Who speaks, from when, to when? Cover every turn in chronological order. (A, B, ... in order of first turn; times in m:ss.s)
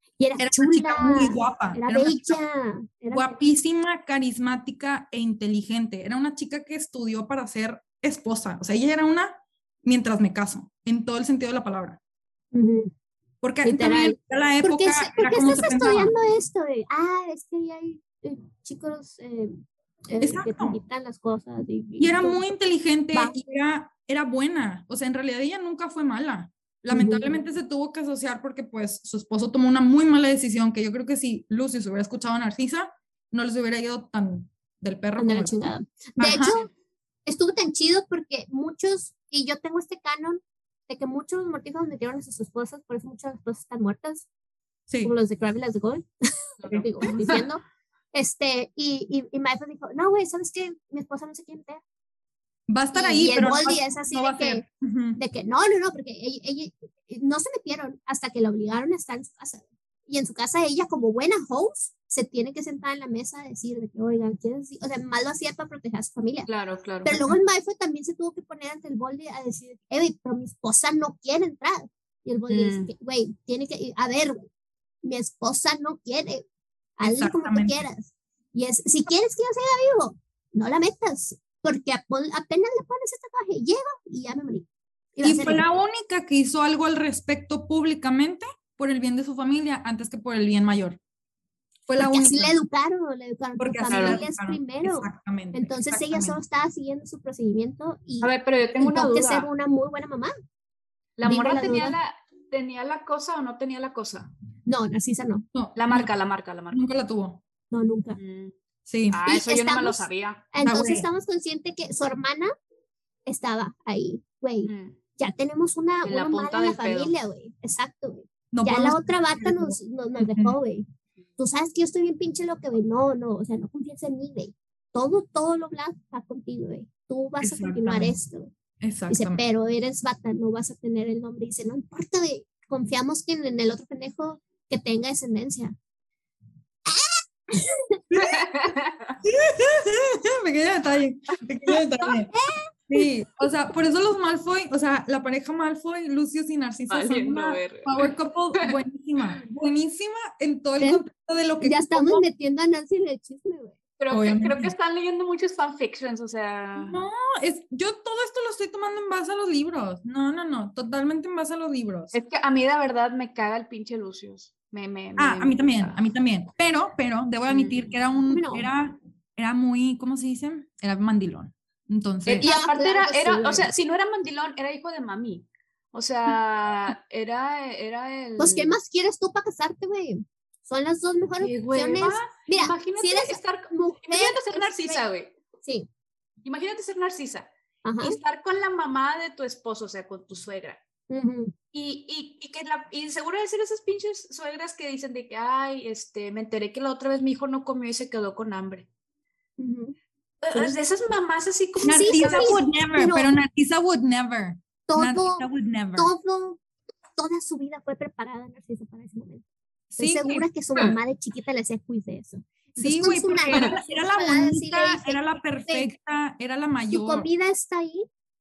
0:00.2-0:03.4 A
0:00.4-0:02.4 B
0:03.1-0:12.0 B
0:12.5-0:12.9 A
0:13.4-0:16.1 B
0:13.6-0:22.4 A
0:20.2-0:20.8 B
0:22.0-0:35.6 B
0:26.9-0:27.3 A
0:35.2-0:36.7 A
0:36.2-0:36.6 B
0:37.2-0:44.2 A
0:44.9-0:45.1 B
0:45.0-0:47.6 A
0:46.6-0:47.4 C
0:48.1-0:51.8 A
0:52.7-0:55.2 B
0:52.9-0:54.6 A
0:55.2-1:06.5 A
1:06.5-1:07.2 C
1:07.0-1:14.4 A
1:12.5-1:12.9 C
1:15.0-1:16.4 A
1:17.0-1:25.6 A
1:17.0-1:17.8 B
1:25.2-1:31.0 B
1:31.9-1:32.5 B
1:32.0-1:40.3 A
1:33.6-1:36.4 B
1:33.9-1:34.2 C
1:38.2-1:39.5 C
1:41.2-1:44.3 C
1:41.2-1:42.0 A
1:44.6-1:45.4 A
1:45.5-1:46.1 B
1:45.8-1:46.8 C
1:46.7-1:47.4 B
1:47.7-1:48.2 A
1:48.2-1:48.5 C
1:48.9-1:49.2 B
1:49.1-1:50.5 C
1:49.2-1:52.5 A
1:50.6-1:51.1 B
1:53.2-2:00.8 A
1:54.6-1:55.0 C
1:56.0-1:57.1 C
1:58.5-2:00.6 B
2:01.4-2:08.5 A
2:07.4-2:08.2 B
2:08.8-2:09.4 B
2:09.1-2:15.7 A
2:16.9-2:18.0 A
2:18.1-2:18.5 B
2:18.2-2:19.2 C
2:19.2-2:22.3 B
2:22.3-2:22.7 A
2:22.9-2:32.2 B
2:26.9-2:27.9 C
2:30.8-2:31.0 A
2:31.6-2:33.8 A
2:34.0-2:37.0 C
2:34.1-2:34.7 B
2:36.8-2:42.1 B
2:42.1-2:46.0 C
2:45.2-2:52.5 B
2:47.5-2:47.9 C
2:48.3-2:48.7 A
2:52.3-2:58.8 C
2:52.4-2:53.7 A
2:58.4-3:05.0 A
3:01.4-3:05.3 C
3:05.6-3:05.9 A
3:06.4-3:07.5 C
3:07.8-3:08.2 A
3:08.0-3:10.8 C
3:11.1-3:11.5 A
3:11.7-3:18.9 C
3:19.6-3:19.9 A
3:20.4-3:22.6 C
3:20.5-3:20.8 A
3:21.8-3:26.1 B
3:21.9-3:23.3 A
3:24.9-3:26.6 A
3:27.2-3:29.4 A
3:29.9-3:30.4 B
3:30.0-3:35.9 A
3:32.8-3:37.3 B
3:36.9-3:38.0 A